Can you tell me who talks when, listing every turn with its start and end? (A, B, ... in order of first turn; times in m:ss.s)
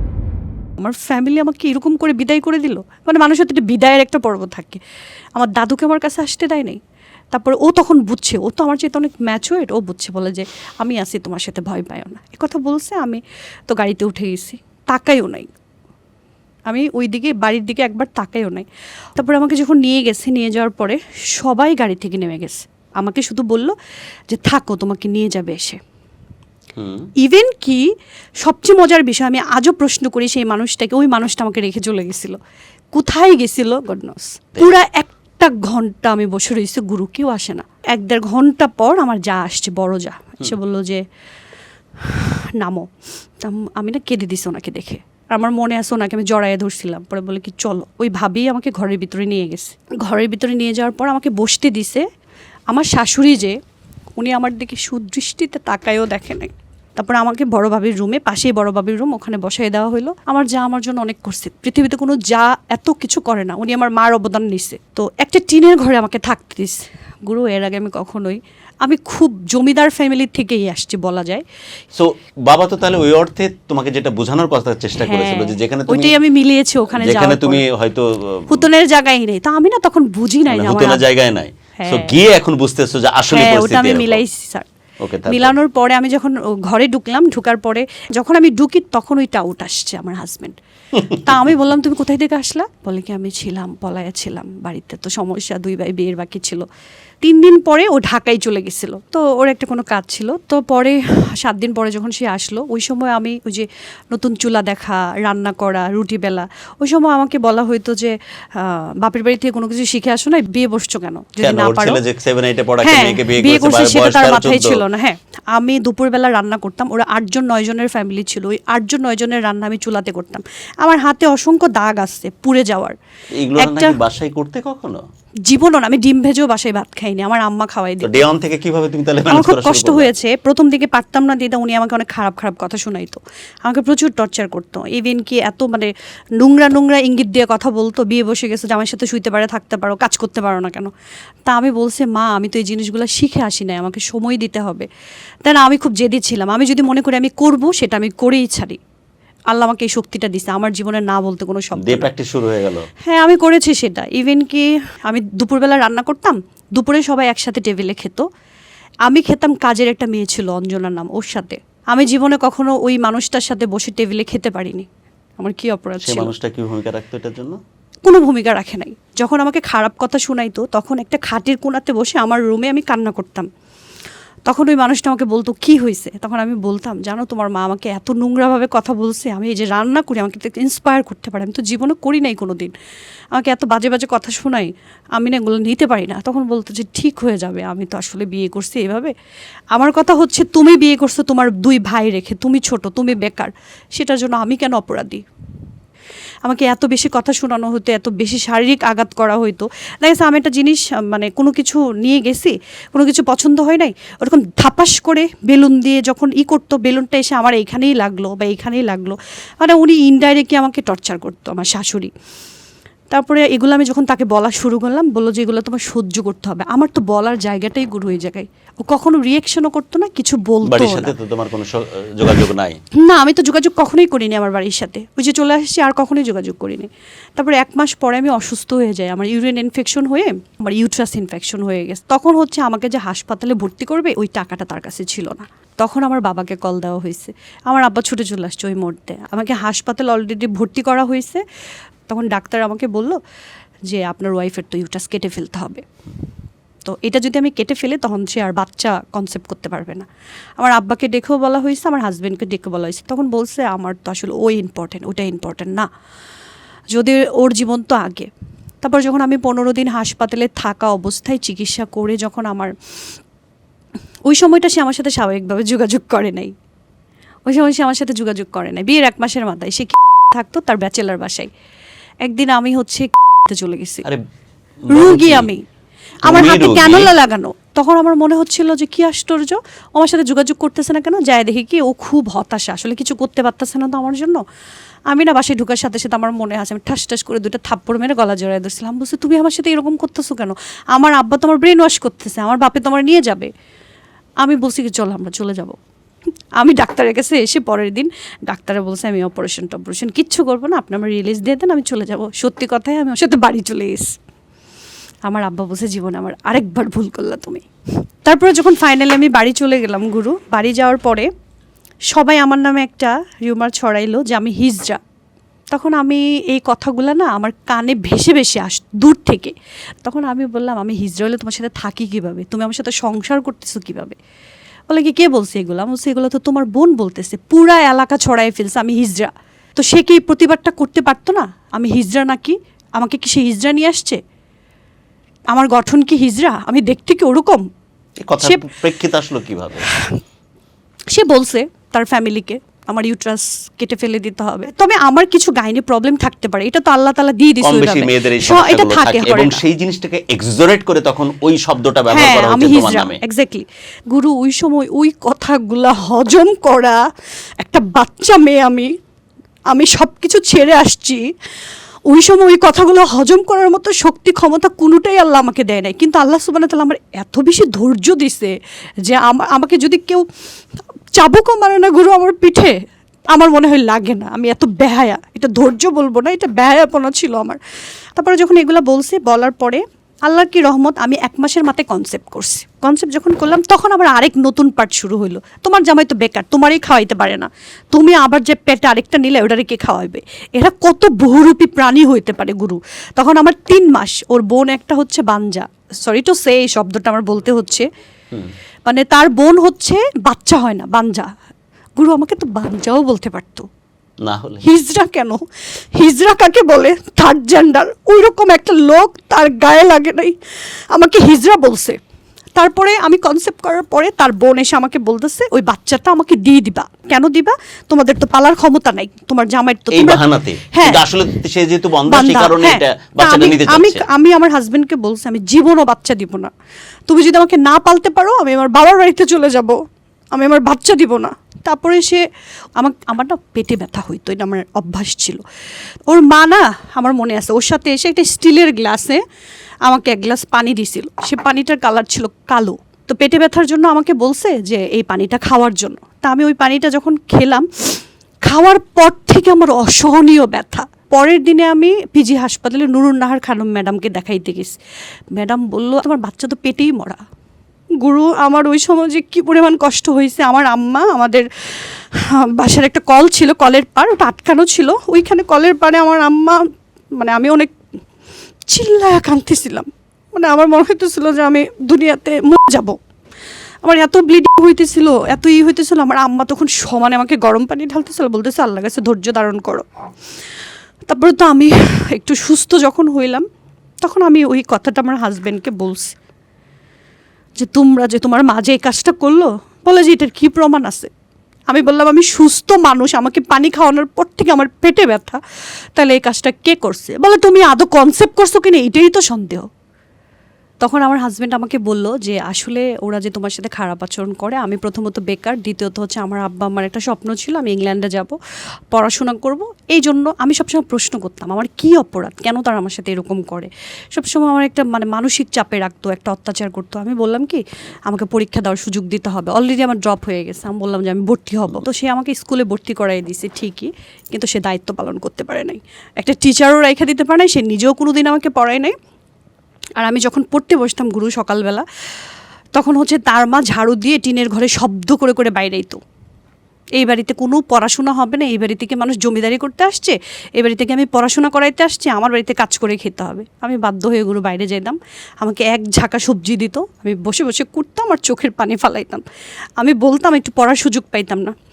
0:00.8-0:04.8 A
0:05.4-0:06.8 A
0:07.3-0:15.5 A
0:16.7-0:23.7 A
0:24.3-0:25.8 A
0:26.8-0:27.1 B
0:27.2-0:27.9 A
0:28.4-0:32.4 A
0:32.9-0:41.0 A
0:42.0-0:42.9 A
0:43.4-0:52.0 A
0:52.7-0:53.6 A
0:54.2-1:11.4 A
1:11.9-1:16.2 B
1:15.0-1:17.6 A
1:17.0-1:18.7 B
1:18.5-1:21.0 A
1:20.5-1:24.2 B
1:21.8-1:22.1 A
1:23.3-1:24.7 A
1:25.0-1:25.6 B
1:25.3-1:30.6 A
1:31.1-1:36.6 A
1:37.2-1:52.0 A
1:51.4-1:54.8 B
1:52.8-2:03.0 A
2:03.4-2:05.0 B
2:03.6-2:04.0 A
2:05.5-2:08.2 A
2:08.0-2:10.1 B
2:09.3-2:20.9 A
2:21.5-2:24.9 A
2:25.4-2:28.8 A
2:29.5-2:32.1 A
2:31.8-2:32.9 B
2:33.0-2:38.3 A
2:39.0-2:44.9 A
2:45.4-2:46.3 A
2:46.0-2:47.6 B
2:48.1-2:53.5 A
2:54.5-3:02.7 A
3:03.3-3:09.1 A
3:09.7-3:15.2 A
3:16.4-3:32.1 A
3:33.1-3:41.1 A
3:40.6-3:42.8 B
3:43.0-4:01.4 A
4:02.1-4:03.2 A
4:03.9-4:05.8 A
4:06.8-4:10.1 A
4:10.6-4:15.9 A
4:16.9-4:18.3 A
4:18.8-4:22.7 A
4:24.3-4:26.5 A
4:27.5-4:31.5 A
4:32.2-4:34.1 A
4:34.9-4:35.5 B
4:34.9-4:35.6 A
4:36.2-4:37.1 B
4:36.2-4:44.4 A
4:45.1-4:53.5 A
4:54.4-4:55.8 A
4:56.6-5:04.2 A
5:05.3-5:07.6 A
5:08.2-5:11.3 A
5:12.1-5:15.0 A
5:15.7-5:24.2 A
5:24.9-5:34.2 A
5:35.5-5:37.7 A
5:38.2-5:39.9 B
5:41.1-5:49.6 A
5:47.6-5:53.2 B
5:52.1-5:57.0 A
5:57.6-5:58.9 A
5:59.7-6:01.2 A
6:02.1-6:08.5 A
6:09.0-6:10.2 A
6:11.2-6:12.8 A
6:13.3-6:17.6 A
6:18.2-6:37.9 A
6:38.9-6:41.3 A
6:42.0-6:43.7 A
6:44.2-6:44.6 B
6:44.6-6:45.4 A
6:46.0-6:50.4 A
6:50.9-6:52.0 A
6:52.6-7:01.0 A
6:59.9-7:04.0 B
7:02.1-7:06.5 A
7:07.1-7:09.8 A
7:10.3-7:12.2 A
7:12.8-7:15.4 A
7:16.1-7:19.2 A
7:19.8-7:34.8 A
7:35.3-7:37.2 A
7:38.0-7:46.6 A
7:47.2-7:47.7 A
7:48.7-7:53.0 A
7:53.8-7:59.8 A
8:01.1-8:03.4 A
8:04.0-8:06.1 A
8:07.6-8:11.1 A
8:11.7-8:15.4 A
8:16.0-8:19.7 A
8:20.8-8:28.4 A
8:28.9-8:49.0 A
8:50.0-8:51.8 A
8:52.8-8:56.0 A
8:57.0-9:09.2 A
9:09.8-9:11.5 A